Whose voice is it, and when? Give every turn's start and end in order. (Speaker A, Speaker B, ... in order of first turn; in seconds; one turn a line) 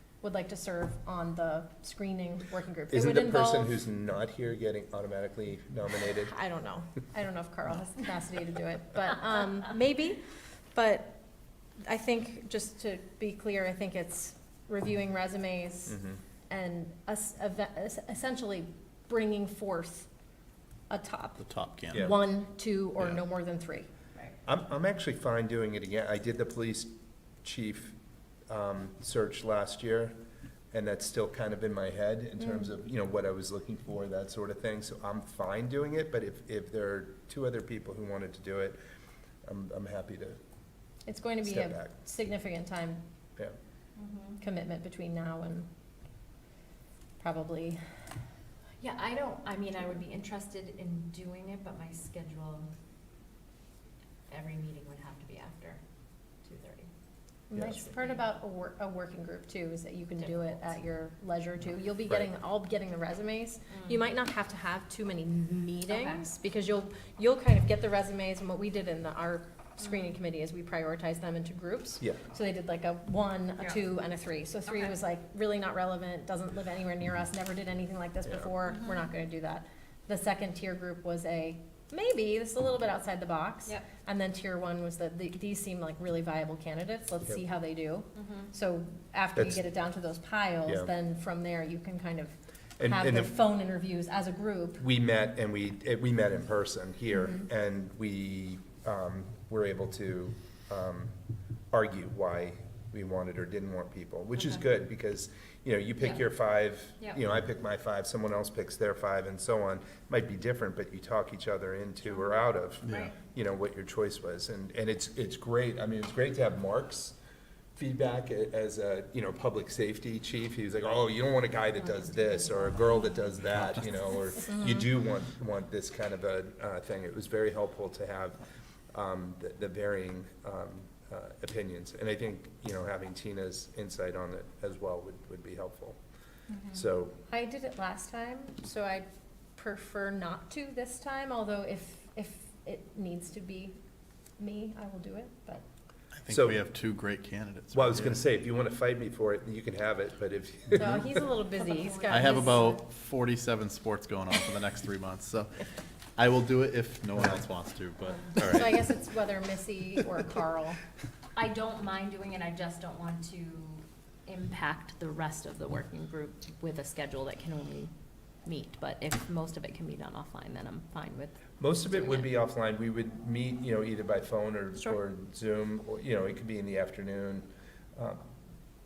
Speaker A: 0.2-3.7
Speaker B: 2.9-6.3
Speaker A: 6.3-10.2
Speaker A: 10.7-11.2
Speaker A: 11.8-20.1
Speaker B: 15.9-16.2
Speaker A: 20.9-23.9
Speaker C: 21.4-22.1
Speaker B: 24.4-26.9
Speaker B: 27.4-27.9
Speaker B: 28.5-30.1
Speaker B: 30.7-38.8
Speaker A: 32.4-32.6
Speaker B: 39.4-40.4
Speaker A: 41.0-43.0
Speaker B: 41.4-41.9
Speaker D: 44.0-44.4
Speaker A: 44.4-45.7
Speaker A: 47.2-47.8
Speaker D: 48.8-52.7
Speaker D: 54.3-55.8
Speaker D: 56.4-56.9
Speaker A: 57.5-94.8
Speaker D: 57.6-58.2
Speaker D: 65.9-66.2
Speaker D: 88.2-88.5
Speaker B: 92.8-93.3
Speaker B: 94.8-101.1
Speaker B: 101.7-117.2
Speaker C: 112.8-113.1
Speaker D: 112.9-113.1
Speaker B: 117.8-128.4
Speaker A: 124.4-124.8
Speaker B: 128.9-136.0
Speaker B: 136.7-137.2
Speaker A: 137.3-143.8
Speaker A: 144.4-145.6
Speaker C: 146.1-148.2
Speaker B: 146.3-146.6
Speaker B: 147.7-151.2
Speaker A: 150.7-152.8
Speaker D: 151.6-152.7
Speaker C: 152.1-155.6
Speaker C: 156.2-158.8
Speaker A: 158.3-160.8
Speaker D: 161.3-167.9
Speaker D: 168.4-172.3
Speaker B: 171.6-178.2